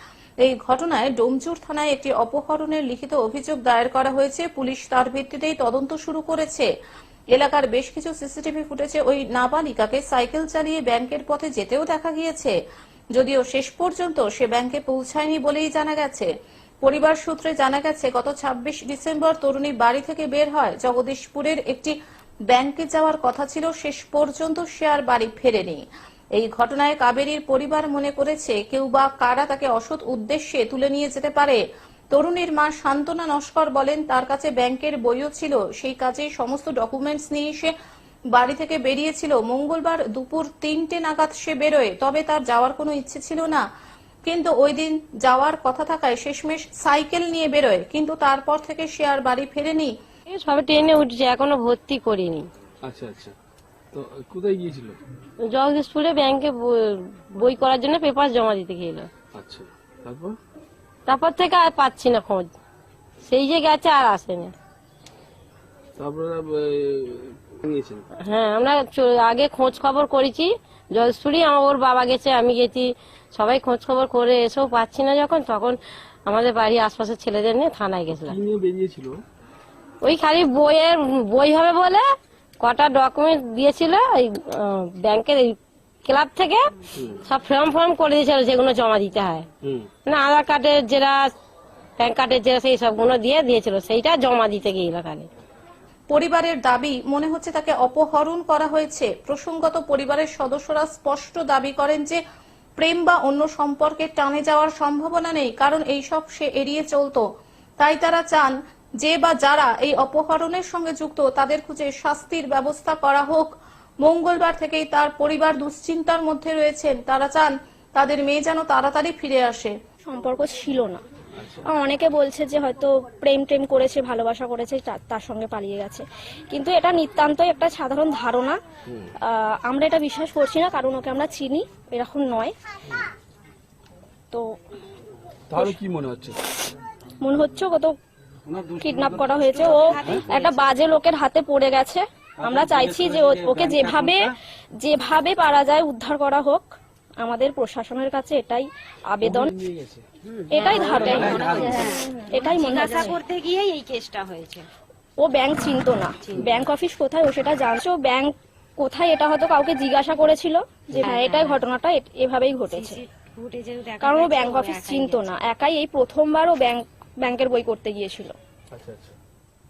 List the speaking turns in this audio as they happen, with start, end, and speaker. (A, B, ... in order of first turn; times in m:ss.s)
0:00.4-0:06.7 A
0:07.3-0:12.5 A
0:13.1-0:16.3 A
0:16.8-0:22.0 A
0:22.5-0:25.8 A
0:26.4-0:31.6 A
0:32.1-0:37.7 A
0:38.3-0:43.6 A
0:44.2-0:49.9 A
0:50.3-0:52.5 B
0:52.8-0:53.3 C
0:53.9-0:55.0 C
0:55.5-0:59.1 B
0:59.3-1:00.4 C
1:01.1-1:02.5 B
1:03.2-1:04.5 B
1:06.0-1:08.0 C
1:08.2-1:18.4 B
1:18.2-1:19.2 C
1:20.0-1:22.0 B
1:22.6-1:26.7 B
1:27.0-1:27.2 C
1:27.2-1:29.4 B
1:29.6-1:29.9 C
1:30.0-1:31.2 B
1:32.0-1:35.3 B
1:36.1-1:42.2 A
1:42.8-1:47.2 A
1:47.8-1:59.8 A
2:00.0-2:01.0 D
2:01.4-2:01.7 C
2:01.6-2:08.6 D
2:09.2-2:12.6 D
2:15.5-2:16.4 C
2:17.2-2:17.9 D
2:18.5-2:20.2 C
2:18.8-2:29.5 D
2:19.5-2:20.7 E
2:22.4-2:24.3 C
2:29.2-2:30.1 C
2:30.3-2:34.7 E
2:30.5-2:33.2 D
2:30.9-2:32.0 C
2:35.2-2:43.0 D
2:36.2-2:36.6 E
2:41.0-2:41.6 E
2:42.7-2:45.3 E
2:44.0-2:48.4 D
2:48.7-2:49.2 C